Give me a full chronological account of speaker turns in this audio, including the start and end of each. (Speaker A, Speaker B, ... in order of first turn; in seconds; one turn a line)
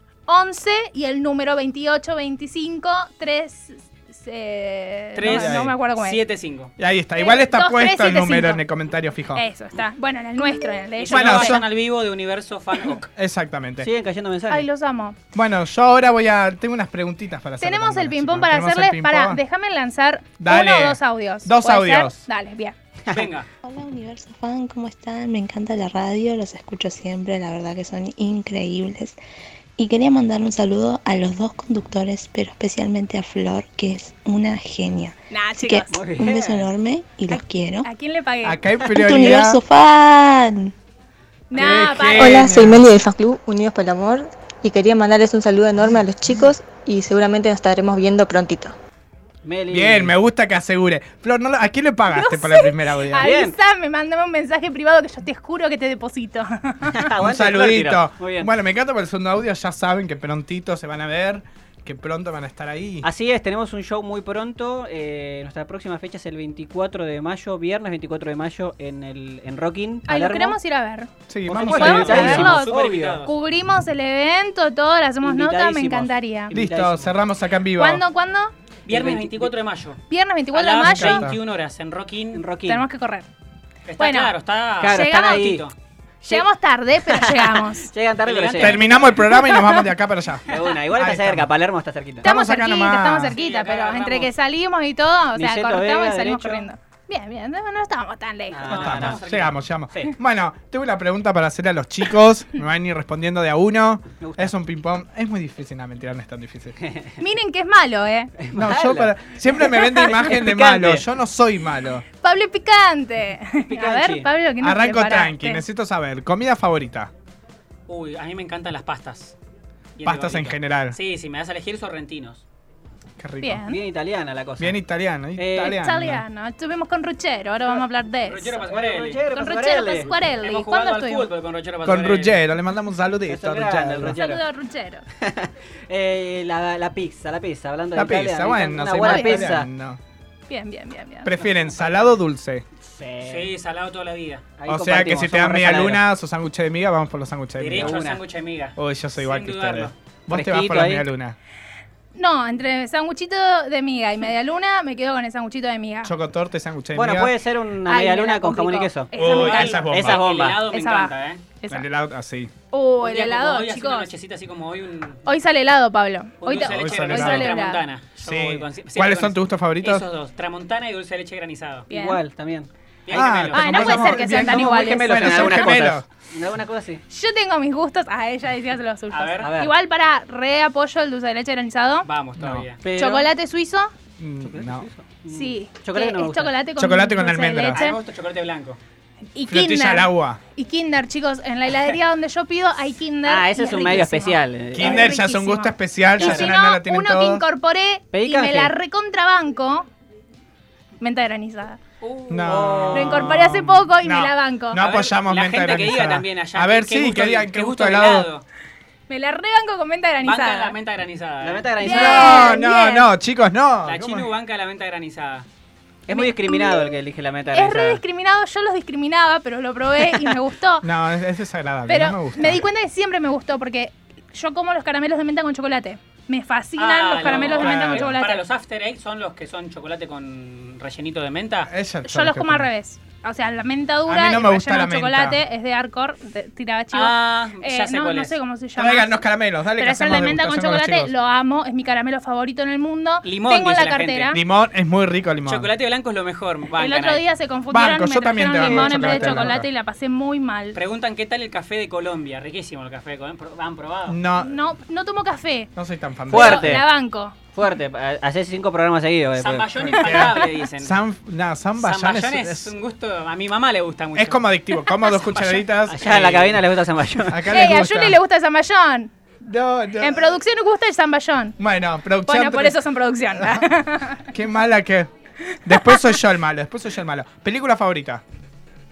Speaker A: 0.3-6.2
Speaker B: 5.1-6.7
Speaker C: 5.2-5.8
Speaker C: 6.8-9.4
Speaker A: 7.2-8.6
Speaker A: 9.3-11.6
Speaker B: 11.0-13.1
Speaker C: 11.1-11.7
Speaker C: 13.2-13.9
Speaker D: 13.8-14.7
Speaker A: 14.5-15.2
Speaker C: 15.3-19.4
Speaker A: 17.6-22.7
Speaker C: 20.4-22.2
Speaker B: 23.1-23.5
Speaker E: 23.6-29.2
Speaker E: 29.8-37.9
Speaker A: 35.3-36.0
Speaker D: 35.9-36.7
Speaker A: 37.3-38.6
Speaker C: 38.4-39.6
Speaker E: 38.9-40.7
Speaker A: 41.5-42.5
Speaker C: 41.5-42.9
Speaker F: 42.2-48.7
Speaker D: 49.4-50.1
Speaker C: 49.7-53.4
Speaker A: 52.1-57.1
Speaker D: 53.2-53.5
Speaker D: 56.9-58.5
Speaker C: 57.2-63.1
Speaker D: 63.0-70.6
Speaker A: 70.1-71.1
Speaker C: 71.3-72.7
Speaker D: 71.5-73.2
Speaker A: 71.7-76.5
Speaker B: 71.7-73.3
Speaker D: 75.2-77.1
Speaker C: 76.5-78.0
Speaker A: 77.8-78.5
Speaker B: 78.8-80.0
Speaker D: 78.9-79.5
Speaker A: 80.1-81.2
Speaker B: 80.5-82.4
Speaker C: 80.8-81.4
Speaker D: 82.3-82.8
Speaker A: 82.7-83.3
Speaker B: 83.9-85.7
Speaker A: 84.0-84.3
Speaker D: 84.8-85.7
Speaker A: 84.9-85.5
Speaker D: 86.2-86.5
Speaker A: 86.3-87.9
Speaker D: 87.0-88.9
Speaker B: 88.2-88.9
Speaker C: 88.6-91.5
Speaker A: 89.0-89.8
Speaker D: 90.5-92.2
Speaker C: 92.2-93.3
Speaker A: 92.2-98.9
Speaker B: 93.3-94.3
Speaker D: 95.3-96.7
Speaker D: 98.5-99.2
Speaker C: 98.7-106.8
Speaker B: 98.7-99.5
Speaker D: 104.2-104.5
Speaker A: 107.2-108.3
Speaker D: 108.4-109.1
Speaker C: 108.5-112.0
Speaker A: 109.8-110.1
Speaker D: 110.0-111.0
Speaker A: 112.2-115.6
Speaker D: 113.7-114.3
Speaker C: 114.6-117.1
Speaker B: 117.9-119.3
Speaker B: 120.0-122.4
Speaker C: 120.0-121.0
Speaker C: 123.2-123.6
Speaker A: 123.4-123.8
Speaker D: 123.7-124.8
Speaker C: 124.6-126.2
Speaker D: 125.4-125.8
Speaker A: 125.5-128.6
Speaker B: 128.2-129.2
Speaker D: 128.6-130.1
Speaker A: 129.3-131.3
Speaker B: 130.4-132.4
Speaker C: 131.8-134.2
Speaker D: 133.3-134.4
Speaker A: 134.1-135.0
Speaker D: 135.2-139.7
Speaker C: 137.9-140.0
Speaker A: 139.0-139.5
Speaker A: 140.5-141.3
Speaker C: 141.2-142.6
Speaker D: 142.8-143.5
Speaker B: 143.2-144.5
Speaker D: 144.6-146.0
Speaker C: 144.7-147.9
Speaker B: 147.6-149.9
Speaker D: 147.8-148.2
Speaker C: 148.8-151.3
Speaker D: 150.3-151.1
Speaker A: 152.2-156.1
Speaker C: 156.0-157.3
Speaker D: 156.9-159.1
Speaker A: 157.9-159.9
Speaker C: 159.1-160.2
Speaker B: 159.2-161.4
Speaker D: 159.9-160.6
Speaker A: 160.7-161.8
Speaker C: 161.7-162.5
Speaker A: 162.7-164.1
Speaker B: 163.0-165.2
Speaker A: 165.2-167.8
Speaker B: 166.4-171.9
Speaker C: 166.5-167.5
Speaker C: 168.2-170.1
Speaker A: 171.9-172.2
Speaker D: 171.9-173.2
Speaker B: 173.1-173.9
Speaker C: 173.1-176.1
Speaker A: 173.5-175.7
Speaker D: 173.8-177.0
Speaker A: 177.1-182.1
Speaker B: 179.1-179.5
Speaker D: 179.4-179.7
Speaker B: 182.1-182.8
Speaker C: 182.4-182.7
Speaker D: 182.8-183.3
Speaker A: 182.9-183.9
Speaker C: 184.2-184.9
Speaker D: 184.4-186.5
Speaker A: 185.3-188.0
Speaker C: 186.8-187.8
Speaker B: 187.7-188.8
Speaker A: 189.3-199.9
Speaker C: 189.5-190.4
Speaker D: 193.2-195.1
Speaker C: 194.7-197.4
Speaker D: 196.2-196.5
Speaker D: 198.1-198.7
Speaker A: 201.0-201.8
Speaker B: 202.0-203.3
Speaker C: 202.3-208.3
Speaker D: 202.5-203.2
Speaker A: 202.9-204.8
Speaker B: 204.8-208.4
Speaker A: 209.1-210.7
Speaker B: 210.2-211.7
Speaker D: 211.4-212.6
Speaker A: 211.8-213.1
Speaker C: 211.8-214.3
Speaker B: 213.8-215.4
Speaker D: 216.1-218.0
Speaker A: 216.1-216.9
Speaker A: 217.5-220.9
Speaker C: 220.8-222.6
Speaker A: 221.9-228.4
Speaker B: 226.8-231.7
Speaker C: 227.2-228.1
Speaker C: 231.7-232.7
Speaker A: 232.0-239.2
Speaker C: 234.1-235.4
Speaker B: 236.9-238.3
Speaker C: 238.8-241.1
Speaker A: 239.8-244.4
Speaker B: 243.2-244.4
Speaker C: 244.3-245.7
Speaker B: 245.4-247.2
Speaker A: 246.8-250.8
Speaker C: 247.7-249.7
Speaker D: 248.5-249.6
Speaker B: 250.7-254.2
Speaker C: 254.1-254.6
Speaker A: 254.4-255.7
Speaker C: 255.8-256.8
Speaker D: 256.3-256.9
Speaker A: 256.3-257.3
Speaker D: 257.5-259.7
Speaker B: 259.4-260.9
Speaker C: 259.8-262.7
Speaker B: 261.8-264.4
Speaker C: 264.1-266.5
Speaker B: 265.1-266.6
Speaker D: 265.9-267.5
Speaker C: 267.3-268.2
Speaker A: 267.5-269.1
Speaker C: 269.4-270.4
Speaker A: 270.0-271.6
Speaker C: 271.6-275.1
Speaker A: 272.2-274.2
Speaker C: 275.6-278.2
Speaker A: 275.7-276.1